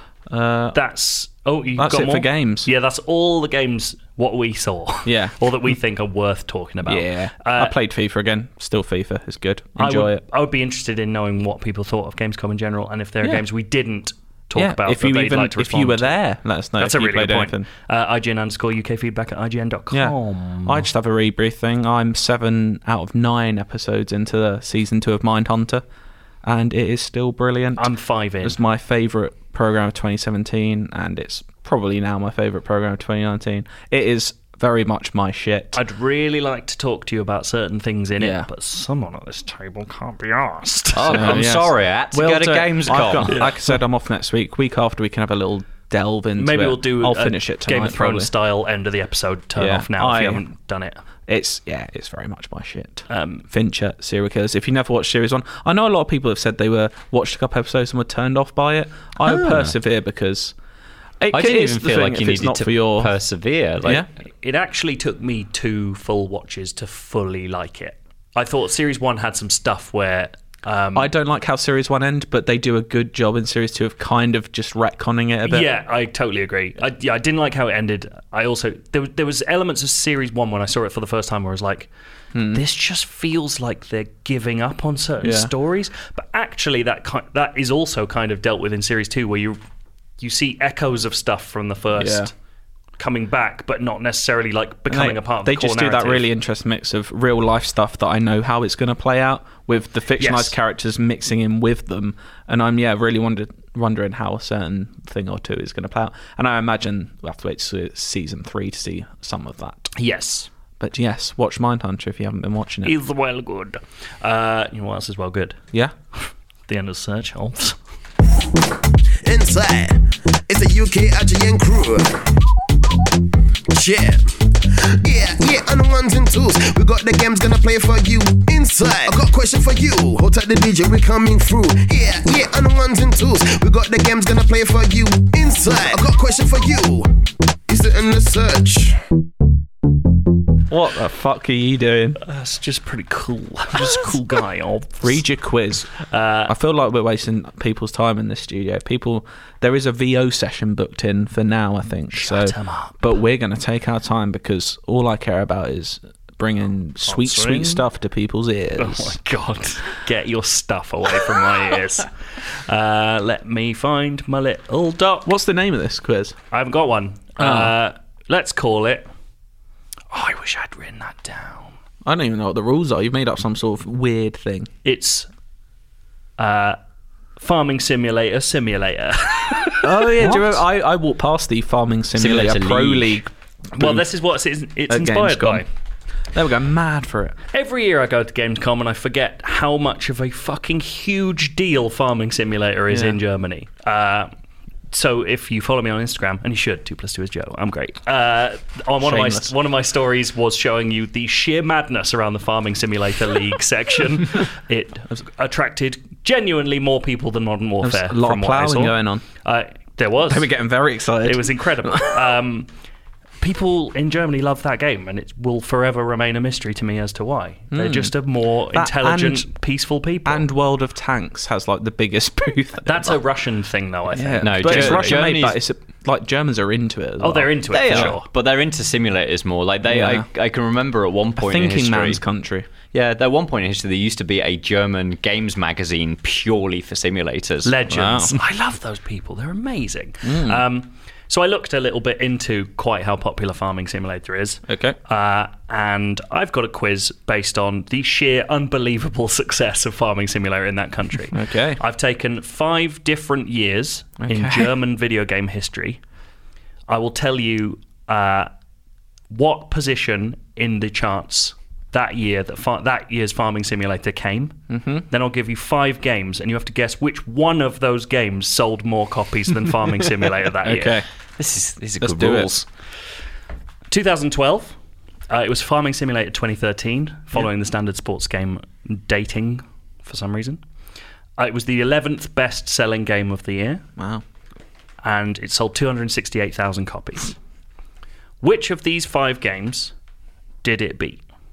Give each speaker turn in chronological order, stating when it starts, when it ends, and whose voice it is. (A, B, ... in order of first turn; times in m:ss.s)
0:00.3-0:00.8 A
0:00.7-0:07.8 B
0:01.8-0:02.7 A
0:05.1-0:05.4 A
0:06.8-0:10.2 A
0:09.8-0:16.1 B
0:14.6-0:17.7 A
0:16.8-0:20.8 B
0:19.9-0:25.8 A
0:26.4-0:35.8 A
0:27.8-0:28.6 B
0:35.7-0:41.4 B
0:38.2-0:38.5 A
0:40.9-0:43.5 C
0:41.1-0:48.3 A
0:43.3-0:43.6 B
0:46.4-0:51.0 B
0:49.6-0:50.4 A
0:51.3-1:00.5 A
0:53.1-0:53.4 B
0:59.3-0:59.7 C
1:01.2-1:03.1 A
1:01.3-1:04.0 C
1:04.4-1:11.1 B
1:11.0-1:15.7 A
1:15.5-1:21.9 B
1:22.4-1:22.6 A
1:22.5-1:29.6 B
1:25.2-1:25.5 A
1:30.2-1:32.3 B
1:32.0-1:32.3 A
1:33.0-1:36.3 B
1:34.9-1:49.9 A
1:40.2-1:40.5 B
1:50.0-1:50.5 B
1:50.8-1:53.0 A
1:52.8-1:55.6 B
1:56.7-1:57.8 B
1:59.2-2:02.3 D
2:03.7-2:04.4 D
2:04.9-2:17.1 D
2:17.7-2:19.0 D
2:20.7-2:22.2 A
2:22.2-2:25.2 B
2:25.0-2:25.9 A
2:26.0-2:26.5 B
2:26.5-2:39.2 A
2:32.1-2:32.9 B
2:37.0-2:37.8 B
2:38.8-2:45.3 B
2:45.3-2:46.4 A
2:46.5-2:49.1 B
2:47.4-2:47.8 A
2:50.1-2:51.7 B
2:52.0-2:54.7 A
2:54.8-2:55.3 B
2:56.4-2:56.8 B
2:57.4-3:00.4 B
2:59.8-3:04.1 A
3:02.2-3:03.2 C
3:03.7-3:05.7 B
3:04.9-3:05.6 A
3:06.3-3:07.4 A
3:07.5-3:14.3 B
3:12.9-3:13.2 A
3:14.9-3:30.5 B
3:19.0-3:19.5 A
3:27.8-3:29.2 A
3:30.3-3:32.3 A
3:31.2-3:32.7 B
3:33.4-3:40.5 B
3:37.7-3:38.1 A
3:38.7-3:39.5 A
3:40.2-3:43.2 A
3:42.8-3:45.2 B
3:44.1-3:48.2 A
3:44.4-3:45.6 C
3:47.2-3:48.3 B
3:47.7-3:52.2 C
3:49.9-3:50.3 A
3:51.4-3:52.7 A
3:52.9-3:57.7 C
3:57.6-4:16.0 B
3:57.9-3:58.4 A
4:00.2-4:00.6 A
4:04.7-4:05.0 A
4:11.3-4:11.8 A
4:14.2-4:14.7 A
4:16.9-4:18.5 B
4:19.3-4:24.6 B
4:24.7-4:25.0 A
4:25.1-4:31.0 B
4:30.6-4:31.1 A
4:31.4-4:32.7 C
4:32.0-4:32.5 A
4:33.9-4:34.8 B
4:35.3-4:40.6 B
4:41.4-4:43.8 B
4:44.0-4:44.2 A
4:45.0-4:47.4 B
4:48.4-4:49.9 B
4:50.6-4:51.2 B